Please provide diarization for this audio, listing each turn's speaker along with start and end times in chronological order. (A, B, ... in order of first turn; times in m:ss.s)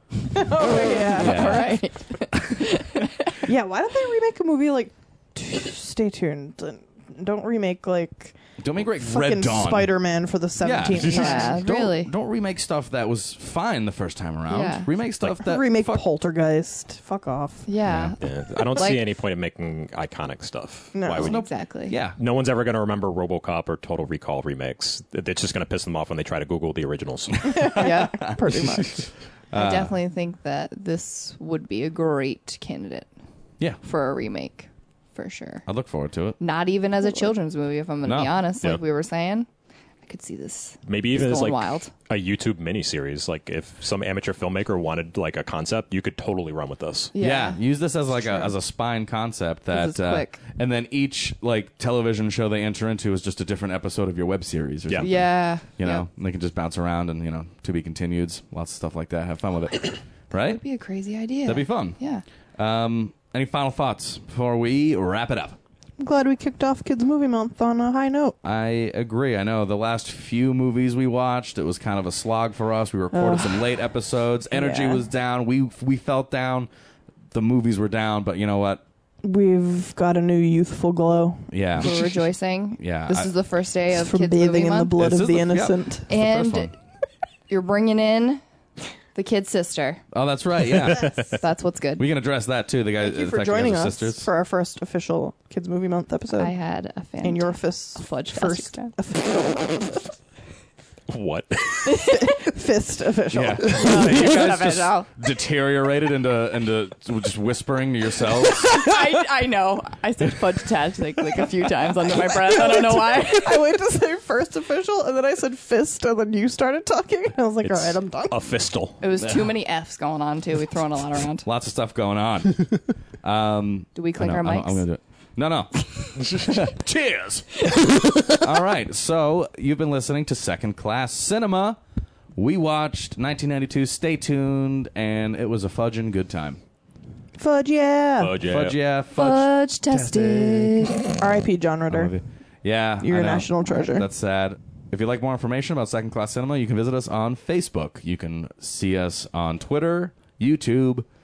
0:00.3-0:01.8 A
0:00.8-0:03.4 B
0:01.2-0:01.8 C
0:02.3-0:02.6 C
0:03.4-0:08.4 A
0:08.6-0:09.9 C
0:09.0-0:11.6 A
0:10.6-0:16.0 C
0:11.1-0:12.1 B
0:14.5-0:14.9 B
0:15.2-0:17.7 A
0:17.7-0:19.1 B
0:17.8-0:18.2 C
0:18.2-0:21.4 D
0:20.9-0:21.3 A
0:21.2-0:22.0 B
0:21.2-0:22.2 C
0:22.2-0:27.8 D
0:27.4-0:30.0 C
0:27.6-0:29.1 A
0:27.8-0:28.2 B
0:29.5-0:33.1 B
0:33.8-0:35.6 B
0:35.7-0:36.4 C
0:36.4-0:39.5 B
0:38.0-0:38.4 C
0:40.0-0:41.9 B
0:40.9-0:47.1 D
0:47.1-0:47.6 B
0:47.2-1:00.6 C
0:48.2-0:48.5 B
0:49.7-0:50.4 B
0:55.0-0:56.1 B
1:00.3-1:02.2 B
1:01.4-1:02.0 C
1:02.6-1:05.6 C
1:06.0-1:08.4 A
1:08.4-1:16.7 C
1:13.1-1:13.7 A
1:14.5-1:15.0 A
1:17.3-1:18.8 C
1:19.2-1:22.1 A
1:21.5-1:21.9 C
1:21.8-1:25.0 B
1:22.8-1:23.3 C
1:23.9-1:26.1 A
1:25.0-1:26.7 C
1:26.1-1:26.7 B
1:27.5-1:28.4 B
1:29.2-1:30.0 B
1:30.1-1:31.3 C
1:30.7-1:31.4 D
1:31.2-1:32.1 B
1:32.0-1:34.3 C
1:33.0-1:36.6 A
1:36.3-1:39.0 B
1:37.2-1:40.0 A
1:41.1-1:42.0 D
1:41.9-1:42.2 B
1:41.9-1:44.2 A
1:43.3-1:48.9 C
1:43.7-1:45.1 B
1:48.6-1:53.6 B
1:52.5-1:58.4 A
1:57.6-1:59.0 D
1:59.0-2:01.5 B
1:59.2-1:59.5 C
2:01.4-2:07.7 C
2:04.0-2:04.8 B
2:06.3-2:06.6 D
2:08.3-2:11.8 C
2:12.4-2:16.6 C
2:17.4-2:18.4 A
2:18.2-2:18.8 D
2:18.4-2:20.9 C
2:19.1-2:21.0 B
2:21.2-2:22.1 A
2:21.9-2:31.1 C
2:23.0-2:24.1 A